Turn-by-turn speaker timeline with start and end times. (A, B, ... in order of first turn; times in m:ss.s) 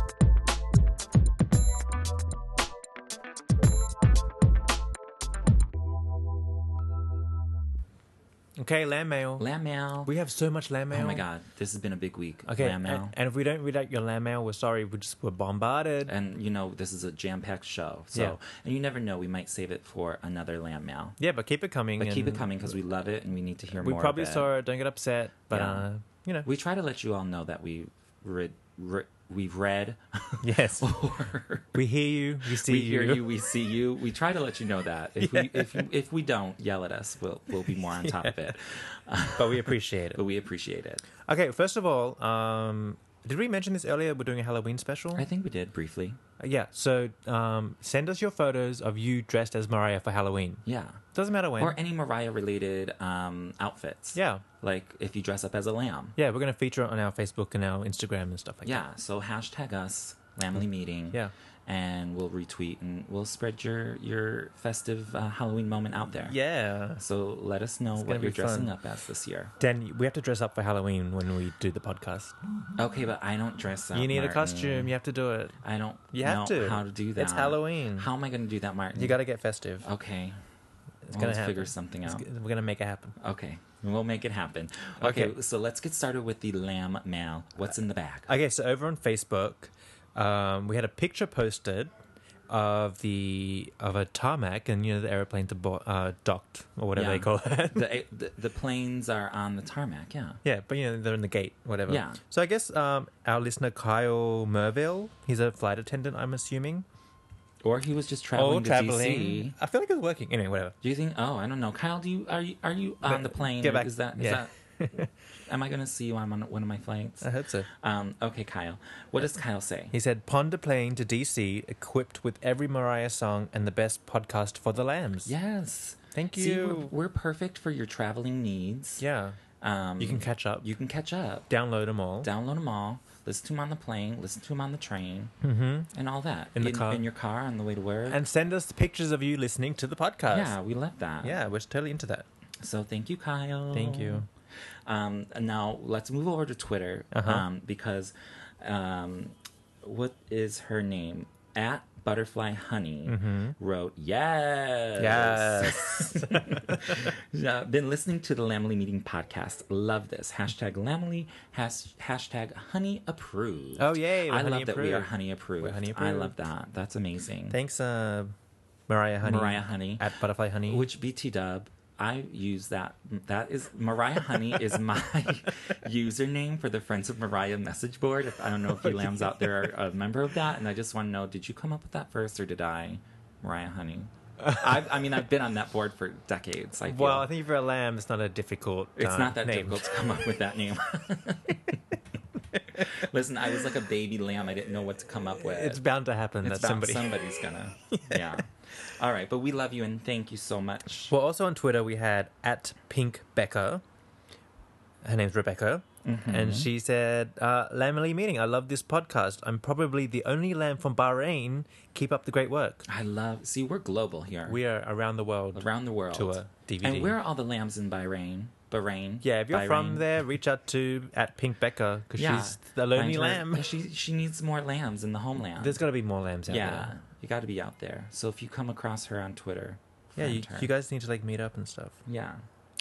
0:08.6-0:09.4 A
0:09.4-0:10.1 B
0:10.0-0:11.3 A
0:10.9-0:13.1 B
0:12.5-0:16.1 A
0:16.0-0:21.2 B
0:21.2-0:22.8 A
0:22.0-0:24.5 B
0:23.8-0:26.5 A
0:25.5-0:25.9 B
0:26.4-0:31.8 B
0:30.4-0:31.0 A
0:31.7-0:33.3 A
0:32.5-0:41.0 B
0:35.2-0:35.8 A
0:37.6-0:38.6 A
0:39.4-0:40.2 A
0:41.3-0:45.3 A
0:45.2-0:46.2 B
0:46.4-0:51.8 A
0:50.6-0:51.0 B
0:51.6-0:56.2 B
0:54.2-0:54.4 A
0:56.2-0:58.8 A
0:58.6-1:06.4 B
1:06.3-1:07.0 A
1:07.0-1:09.5 B
1:08.0-1:08.7 A
1:09.6-1:12.4 A
1:12.8-1:14.9 B
1:13.9-1:15.6 A
1:15.6-1:19.2 B
1:16.1-1:18.1 A
1:19.0-1:19.9 A
1:19.8-1:20.4 B
1:21.1-1:23.2 A
1:21.1-1:22.3 B
1:23.2-1:28.3 B
1:25.0-1:25.4 A
1:28.3-1:31.9 A
1:32.5-1:37.9 A
1:36.9-1:40.4 B
1:40.4-1:46.9 A
1:41.9-1:42.2 B
1:47.6-1:49.6 B
1:48.4-1:50.8 A
1:50.8-1:54.5 B
1:53.0-1:55.1 A
1:55.5-1:59.9 B
1:57.2-1:57.7 A
1:59.9-2:05.3 A
2:05.3-2:09.0 B
2:06.1-2:06.9 A
2:09.0-2:09.4 A
2:09.6-2:11.5 B
2:10.0-2:10.7 A
2:11.5-2:12.3 A
2:12.2-2:15.3 B
2:15.4-2:15.9 A
2:15.9-2:18.2 B
2:16.6-2:17.0 A
2:18.1-2:20.6 A
2:20.3-2:21.4 B
2:21.2-2:22.3 A
2:22.6-2:24.3 B
2:23.7-2:24.3 A
2:24.9-2:47.6 B
2:27.1-2:27.5 A
2:33.1-2:33.6 A
2:35.0-2:37.1 A
2:43.8-2:46.3 A
2:47.5-2:48.3 A
2:48.9-2:50.9 A
2:49.2-2:50.1 B
2:50.7-3:07.3 B
2:58.8-2:59.7 A
3:06.9-3:09.8 A
3:09.0-3:11.8 B
3:12.7-3:15.8 B
3:15.4-3:17.3 A
3:16.4-3:21.1 B
3:17.9-3:18.4 A
3:21.1-3:23.8 A
3:25.0-3:32.9 A
3:26.0-3:26.7 B
3:32.9-3:34.6 B
3:34.5-3:37.2 A
3:35.6-3:40.1 B
3:39.2-3:43.7 A
3:42.2-3:45.8 B
3:45.6-3:46.9 A
3:46.5-3:50.7 B
3:50.2-3:52.0 A
3:52.1-3:52.4 B